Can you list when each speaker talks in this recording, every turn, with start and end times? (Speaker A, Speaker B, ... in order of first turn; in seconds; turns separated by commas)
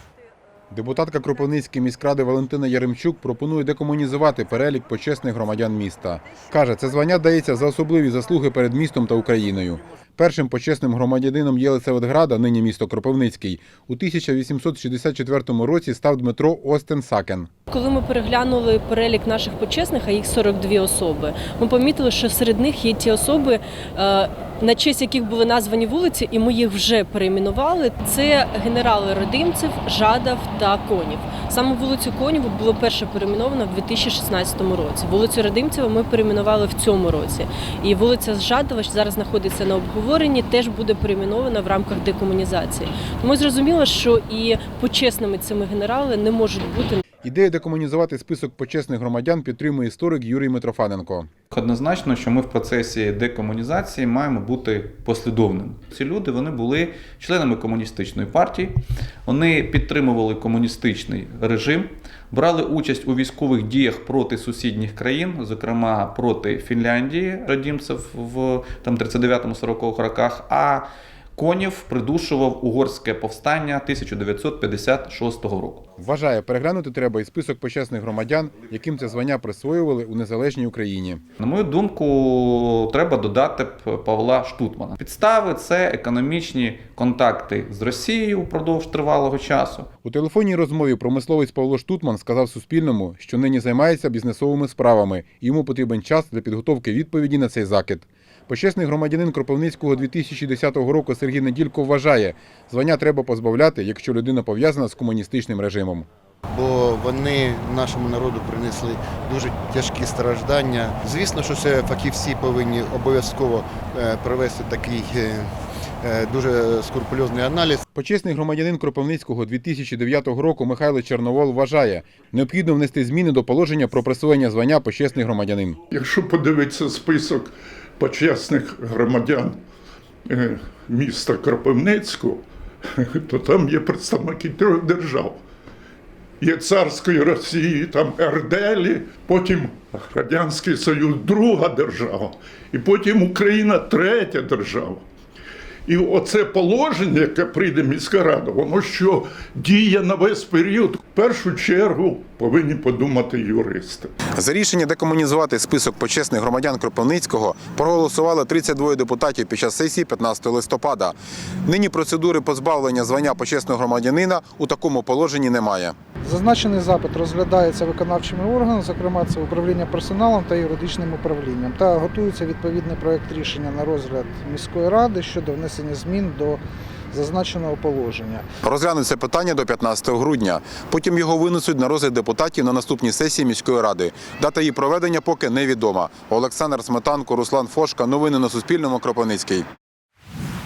Speaker A: 0.7-17.5, Speaker B: 17.7-47.0, Speaker A: 47.2-51.3, Speaker C: 51.5-75.8, Speaker A: 76.0-81.2, Speaker C: 81.4-89.9, Speaker A: 90.0-106.1, Speaker D: 106.5-115.5, Speaker D: 116.0-117.8, Speaker A: 117.9-125.8, Speaker E: 125.9-129.6, Speaker E: 130.3-135.4, Speaker E: 136.4-145.0, Speaker E: 145.9-154.1, Speaker A: 154.3-165.9, Speaker F: 166.2-178.5, Speaker A: 178.6-189.7